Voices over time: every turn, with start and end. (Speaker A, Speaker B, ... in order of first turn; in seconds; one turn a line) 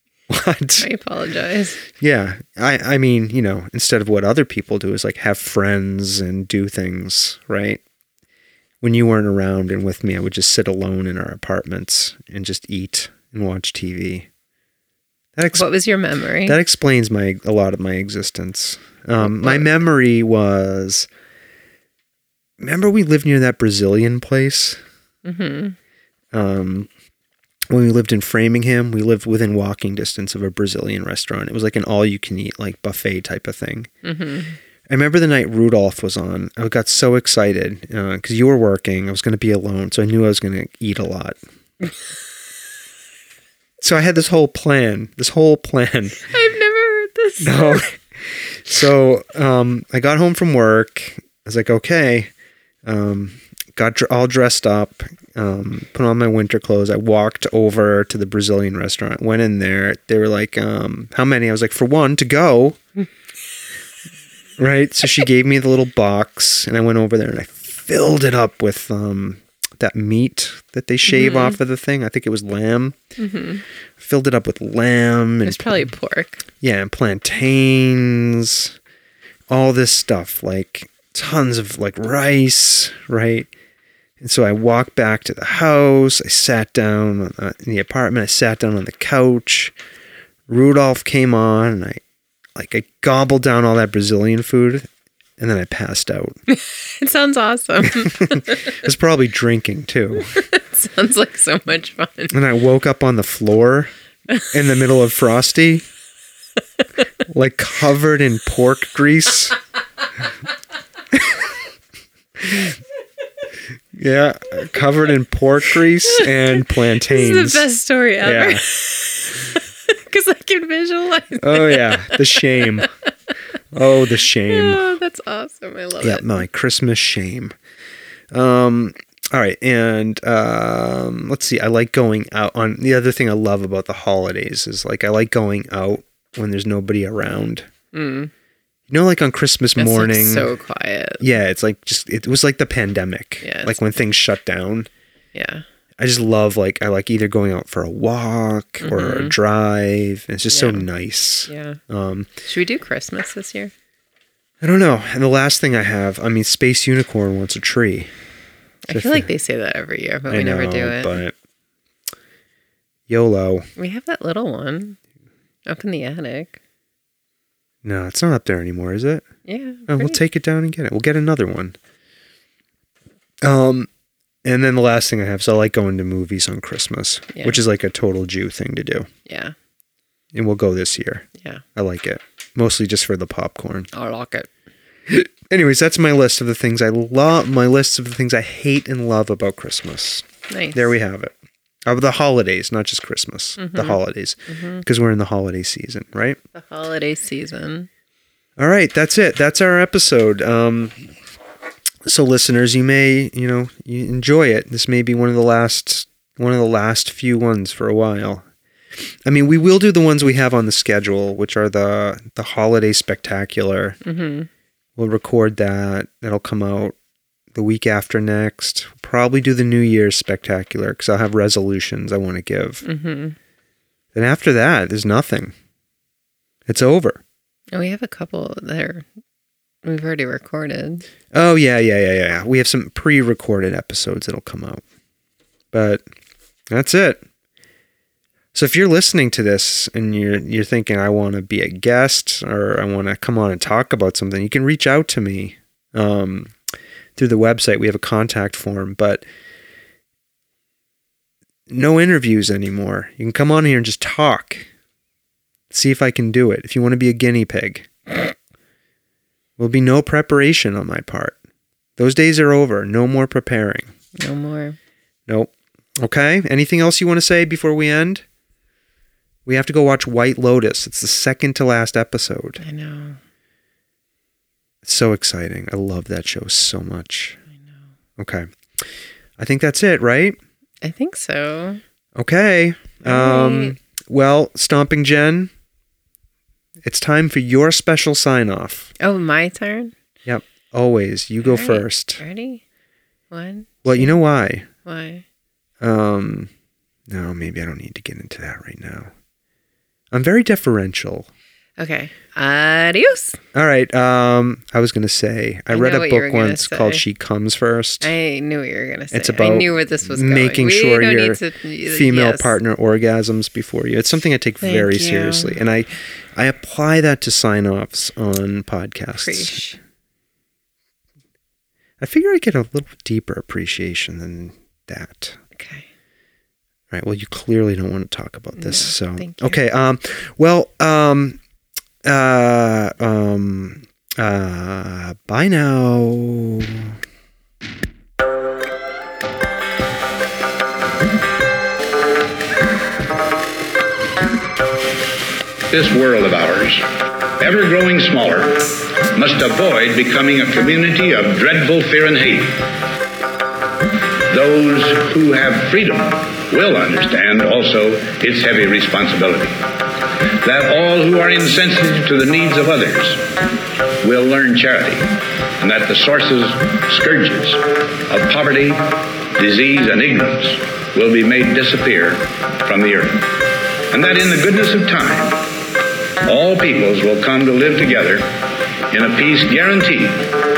Speaker A: 0.3-0.9
Speaker B: 0.8-1.8
Speaker A: 2.0-7.8
Speaker A: 8.8-14.3
Speaker A: 15.4-15.7
Speaker B: 15.5-16.6
Speaker A: 16.4-21.1
Speaker B: 19.2-19.7
Speaker A: 22.6-24.8
Speaker B: 25.2-25.8
Speaker A: 26.3-26.9
Speaker A: 27.7-33.9
Speaker B: 34.0-34.6
Speaker A: 34.9-41.4
Speaker A: 43.8-46.3
Speaker B: 46.2-47.9
Speaker A: 47.4-52.3
Speaker A: 52.9-62.8
Speaker A: 64.6-73.0
Speaker B: 71.1-71.6
Speaker B: 73.2-73.6
Speaker A: 74.0-75.9
Speaker B: 75.5-76.5
Speaker A: 76.6-78.8
Speaker A: 79.5-83.5
Speaker A: 84.2-89.7
Speaker A: 90.5-92.0
Speaker A: 92.5-94.9
Speaker A: 95.4-96.4
Speaker B: 96.5-98.6
Speaker A: 98.0-100.4
Speaker B: 100.3-102.4
Speaker A: 102.3-105.9
Speaker A: 107.3-109.6
Speaker A: 114.0-117.7
Speaker B: 116.1-122.9
Speaker A: 118.2-118.7
Speaker A: 121.4-122.9
Speaker A: 123.7-124.9
Speaker B: 124.2-126.4
Speaker A: 126.0-127.5
Speaker A: 128.3-137.7
Speaker B: 137.9-138.3
Speaker A: 138.9-140.5
Speaker B: 139.8-141.2
Speaker A: 141.2-144.9
Speaker B: 143.4-143.8
Speaker B: 145.3-145.7
Speaker A: 146.0-152.4
Speaker B: 148.8-149.3
Speaker B: 150.5-150.9
Speaker B: 151.5-151.8
Speaker B: 152.4-153.7
Speaker A: 154.6-158.1
Speaker B: 158.8-161.2
Speaker A: 158.9-159.3
Speaker A: 160.3-161.3
Speaker A: 163.1-163.7
Speaker B: 163.8-165.0
Speaker B: 165.7-166.6
Speaker A: 167.8-169.3
Speaker B: 169.4-170.2
Speaker A: 169.9-171.8
Speaker A: 173.4-173.9
Speaker A: 174.4-179.1
Speaker B: 177.3-177.6
Speaker B: 179.3-179.6
Speaker A: 180.3-183.9
Speaker B: 183.9-184.5
Speaker A: 185.1-191.3
Speaker B: 190.5-190.9
Speaker A: 191.9-196.4
Speaker B: 193.6-194.0
Speaker B: 194.5-194.8
Speaker B: 196.5-197.9
Speaker A: 198.6-201.1
Speaker A: 202.1-208.4
Speaker A: 209.2-214.0
Speaker B: 214.0-214.5
Speaker A: 215.0-216.9
Speaker A: 217.5-222.8
Speaker B: 222.8-223.4
Speaker A: 224.1-225.5
Speaker A: 226.7-227.2
Speaker B: 227.7-229.1
Speaker B: 229.8-231.1
Speaker A: 231.3-234.8
Speaker A: 235.7-236.0
Speaker A: 236.7-237.2
Speaker A: 238.5-246.5
Speaker A: 247.2-249.2
Speaker A: 251.7-254.7
Speaker A: 255.7-257.9
Speaker A: 259.6-261.4
Speaker A: 262.0-263.9
Speaker B: 264.2-264.8
Speaker A: 265.3-268.2
Speaker A: 269.5-272.6
Speaker B: 272.6-273.2
Speaker A: 274.8-277.4
Speaker A: 278.2-278.5
Speaker A: 279.4-280.4
Speaker B: 280.8-281.8
Speaker A: 282.2-285.5
Speaker B: 283.0-283.8
Speaker A: 286.8-288.9
Speaker B: 289.0-289.9
Speaker A: 290.3-292.2
Speaker B: 291.4-292.6
Speaker B: 293.3-294.2
Speaker A: 293.8-294.7
Speaker B: 294.9-295.2
Speaker A: 295.8-296.5
Speaker A: 297.1-299.1
Speaker A: 300.1-301.3
Speaker B: 301.8-303.4
Speaker A: 303.5-308.1
Speaker B: 305.7-307.0
Speaker B: 308.0-312.6
Speaker A: 309.1-319.6
Speaker B: 314.6-315.6
Speaker B: 319.2-319.8
Speaker A: 322.0-325.4
Speaker B: 325.6-325.9
Speaker A: 326.9-331.4
Speaker B: 328.6-329.6
Speaker A: 332.0-337.0
Speaker C: 345.7-352.7
Speaker C: 354.3-359.6
Speaker C: 360.3-363.4
Speaker C: 364.0-375.4
Speaker C: 376.2-378.3
Speaker C: 378.9-380.3